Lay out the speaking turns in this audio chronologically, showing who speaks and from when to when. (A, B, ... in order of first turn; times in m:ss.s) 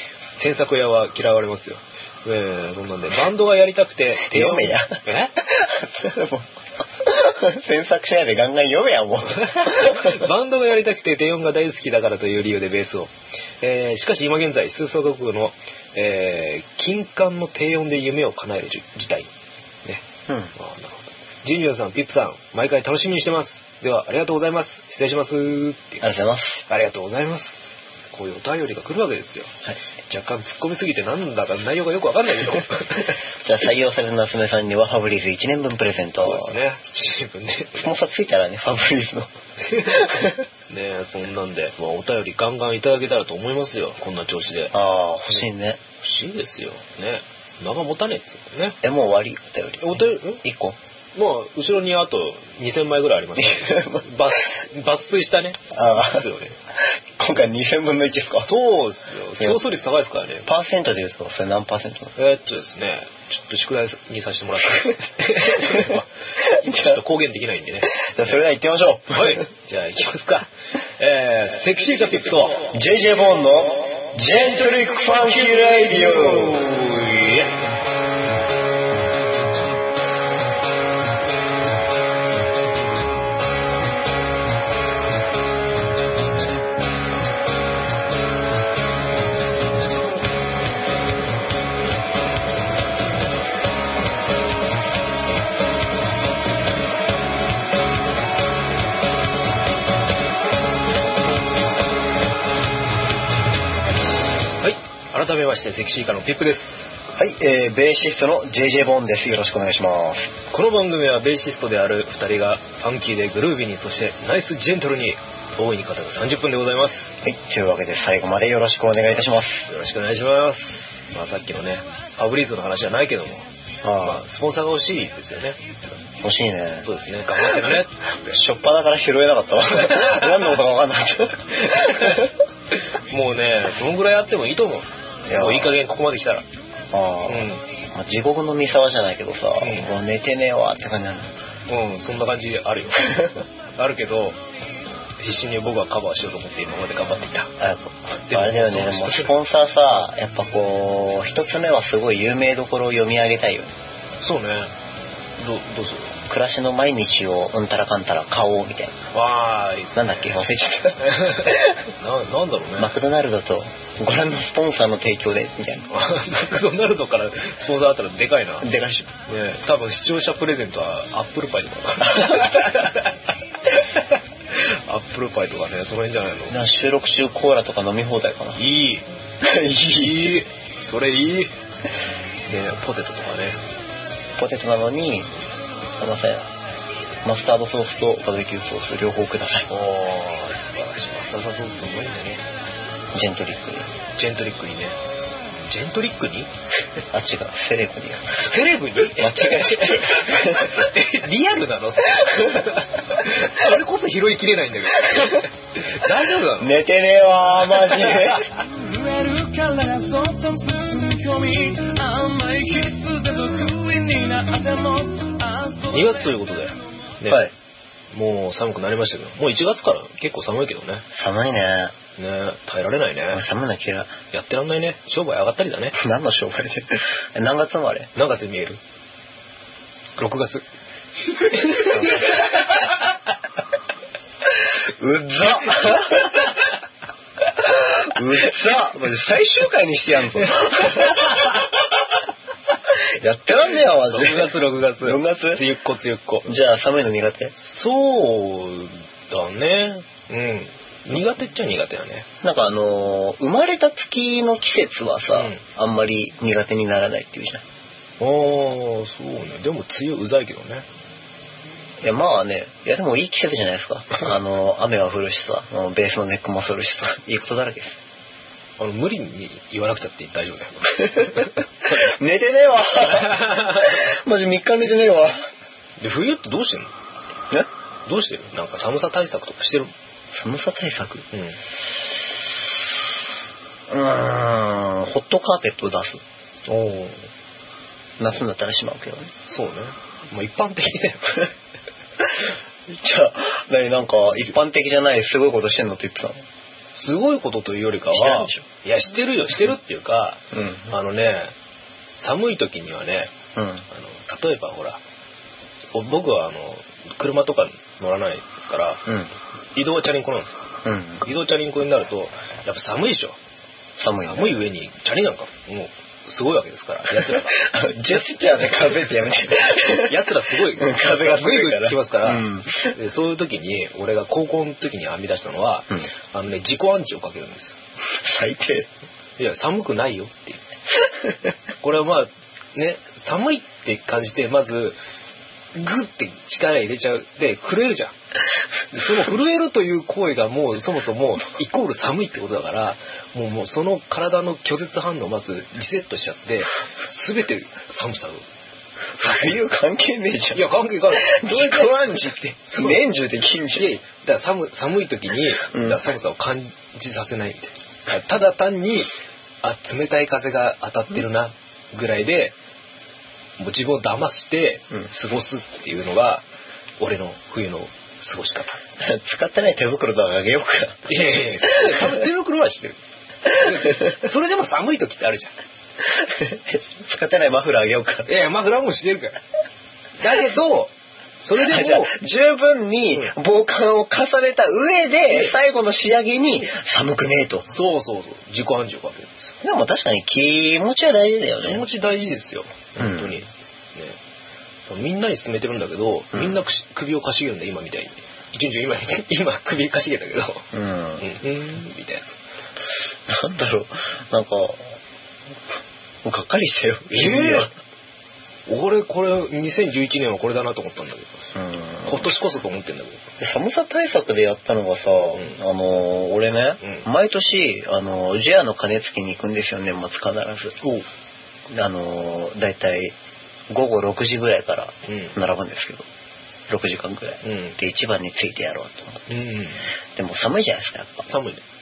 0:00.4-0:05.4 A
0:04.2-0:10.2 B
0:09.4-0:19.3 A
0:20.5-0:26.0 A
0:26.0-0:26.6 B
0:26.7-0:33.1 A
0:33.4-0:36.6 B
0:36.2-0:37.9 A
0:37.8-0:40.4 B
0:39.7-0:40.1 A
0:40.7-0:44.7 A
0:44.7-0:45.8 B
0:46.0-0:48.8 A
0:48.8-0:50.8 B
0:49.8-0:50.4 A
0:51.1-0:56.6 A
0:53.4-0:54.0 B
0:55.7-0:56.2 B
0:56.8-0:58.5 B
0:58.4-1:00.5 A
1:00.4-1:02.1 B
1:02.2-1:08.0 A
1:05.4-1:05.9 B
1:06.5-1:07.0 B
1:07.9-1:09.4 B
1:09.1-1:12.7 A
1:12.7-1:16.6 B
1:16.0-1:17.6 A
1:44.6-1:47.0 A
1:47.1-1:50.3 B
1:50.5-1:57.2 A
1:57.2-1:59.7 B
1:59.1-2:03.5 A
2:03.8-2:04.2 B
2:04.0-2:05.6 A
2:06.2-2:06.9 B
2:06.8-2:08.4 A
2:08.3-2:12.3 B
2:09.8-2:10.3 A
2:11.6-2:12.2 A
2:12.7-2:16.4 A
2:15.2-2:15.8 B
2:16.9-2:21.4 B
2:17.2-2:17.6 A
2:19.6-2:19.9 A
2:21.7-2:24.4 A
2:23.0-2:23.4 B
2:25.2-2:27.5 A
2:27.6-2:33.7 B
2:28.3-2:29.4 A
2:34.2-2:34.7 A
2:35.4-2:36.2 A
2:36.2-2:39.0 B
2:39.1-2:40.4 A
2:39.9-2:41.9 B
2:41.0-2:43.0 A
2:42.8-2:45.9 B
2:45.9-2:48.7 A
2:48.6-2:49.1 B
2:49.3-2:53.2 A
2:52.1-2:52.6 B
2:53.7-2:56.6 A
2:56.5-2:58.6 B
2:58.6-2:59.1 A
2:59.4-3:00.4 B
2:59.9-3:01.5 A
3:02.4-3:03.6 A
3:04.4-3:05.3 B
3:06.0-3:06.5 B
3:07.2-3:09.7 B
3:09.7-3:12.5 A
3:13.1-3:13.9 B
3:14.2-3:15.0 A
3:15.6-3:16.5 A
3:17.1-3:18.5 B
3:18.4-3:26.7 A
3:19.0-3:20.9 B
3:26.6-3:28.5 B
3:28.7-3:36.3 C
3:35.9-3:37.4 A
3:38.1-3:41.0 A
3:41.1-3:41.9 B
3:42.2-3:43.4 A
3:43.3-3:44.1 B
3:44.3-3:46.0 A
3:45.9-3:48.1 B
3:48.1-3:48.8 A
3:50.2-3:50.6 A
3:51.4-3:52.3 A
3:55.0-3:56.5 B
3:57.6-4:01.6 B
4:02.9-4:05.6 B
4:04.1-4:06.5 A
4:06.4-4:07.5 B
4:07.6-4:12.3 A
4:12.4-4:17.6 B
4:15.3-4:15.6 A
4:18.2-4:20.8 A
4:22.0-4:28.0 B
4:28.8-4:31.5 A
4:31.4-4:35.4 B
4:33.1-4:34.0 A
4:36.0-4:36.9 A
4:38.0-4:39.9 A
4:40.3-4:41.3 B
4:41.3-4:41.6 A
4:43.9-4:46.2 B
4:46.6-4:47.3 A
4:48.2-4:49.3 B
4:49.5-4:51.5 A
4:52.9-4:56.4 B
4:57.0-5:01.5 A
4:58.1-4:58.6 B
5:00.5-5:00.9 B
5:02.2-5:03.3 A
5:03.5-5:03.8 B
5:03.9-5:05.0 A
5:05.9-5:09.0 A
5:09.7-5:10.6 A
5:10.8-5:11.2 B
5:11.2-5:13.4 A
5:14.0-5:14.6 B
5:14.2-5:17.6 A
5:17.3-5:23.0 B
5:19.8-5:27.8 A
5:28.2-5:28.9 B
5:29.4-5:30.6 A
5:31.8-5:35.0 A
5:35.7-5:38.2 A
5:38.9-5:48.4 A
5:49.1-5:49.5 A
5:49.2-5:53.9 B
5:50.5-5:53.0 A
5:53.7-6:02.6 A
5:55.7-5:56.0 B
6:03.6-6:06.4 A
6:07.0-6:08.8 A
6:09.0-6:12.2 B
6:11.0-6:15.5 A
6:13.6-6:14.0 B
6:16.0-6:18.3 B
6:18.2-6:19.4 A
6:20.2-6:22.1 A
6:21.6-6:27.7 B
6:27.7-6:29.4 A
6:29.6-6:31.8 B
6:31.6-6:34.2 A
6:33.0-6:33.4 B
6:34.9-6:40.6 A
6:36.3-6:36.6 B
6:40.7-6:41.3 B
6:41.2-6:42.3 A
6:43.3-6:45.0 B
6:46.2-6:47.7 B
6:47.1-6:47.7 A
6:48.7-6:51.4 A
6:51.5-6:52.3 B
6:52.0-6:53.2 A
6:53.4-7:00.8 B
7:00.8-7:01.0 A
7:01.7-7:03.1 B
7:03.7-7:06.0 B
7:05.1-7:05.4 A
7:06.7-7:09.3 B
7:07.4-7:07.8 A
7:09.3-7:09.8 A
7:10.1-7:11.3 B
7:11.3-7:11.6 A